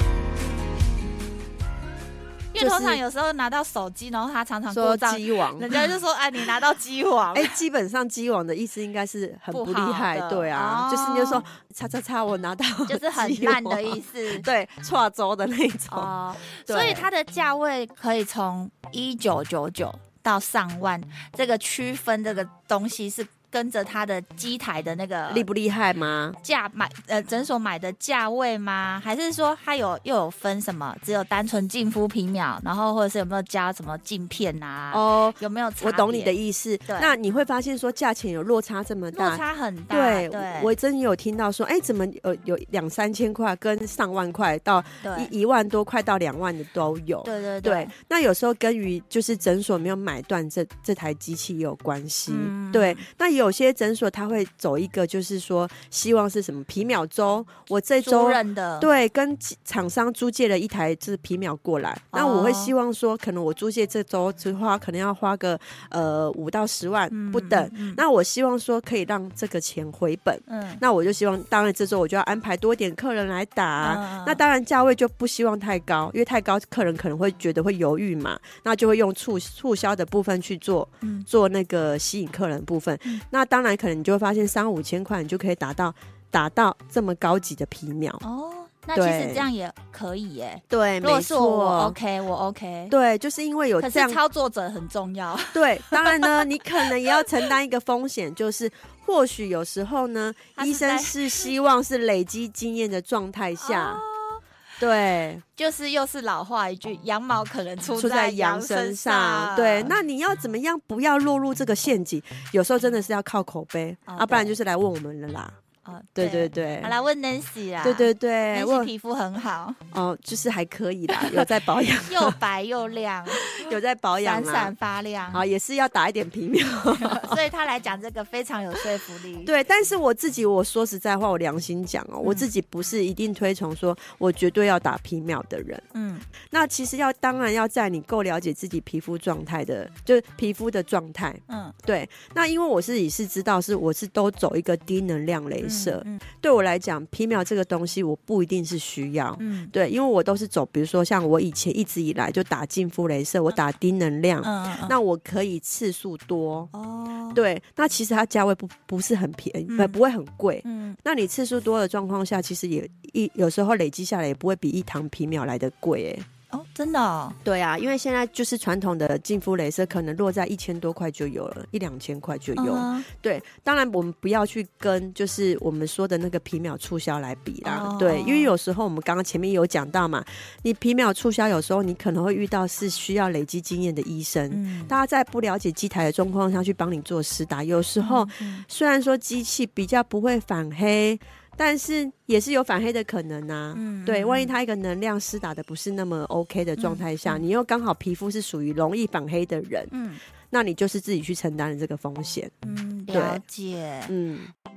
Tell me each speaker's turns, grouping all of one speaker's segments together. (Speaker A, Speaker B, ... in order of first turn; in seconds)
Speaker A: 2.5-7.6, 9.5-11.4, 12.9-14.4, 15.9-25.5, 26.4-36.3, 36.9-37.1, 39.1-40.7, 45.0-45.3, 47.2-47.9, 52.3-53.0, 58.0-58.9, 62.1-62.7, 67.1-68.0, 70.5-70.8, 73.8-74.4, 88.2-92.9, 93.8-97.2, 100.5-101.5, 103.6-104.4, 105.6-109.9, 114.1-114.5, 115.8-119.8, 121.1-121.5, 122.0-125.4, 126.9-129.5, 135.9-136.2, 141.5-141.7, 145.6-146.2, 149.4-149.7, 154.4-154.9, 156.7-157.4, 159.7-160.0, 160.6-161.0, 166.5-167.4, 172.6-173.1, 177.6-178.5, 184.5-184.9, 188.0-188.6, 193.7-194.5, 196.8-197.4, 199.9-200.2, 202.6-204.1
Speaker B: 2.6-3.0, 4.7-5.9, 7.3-16.1, 16.6-17.1, 25.3-26.4, 34.9-88.2, 88.9-89.5, 90.7-92.0, 92.9-94.2, 95.5-104.0, 104.8-105.4, 107.9-115.5, 116.2-116.9, 117.8-118.9, 119.9-122.4, 123.4-124.7, 125.3-127.4, 129.4-135.8, 136.5-156.7, 157.3-166.2, 167.4-199.9, 200.5-202.5, 203.1-203.4, 204.1-204.5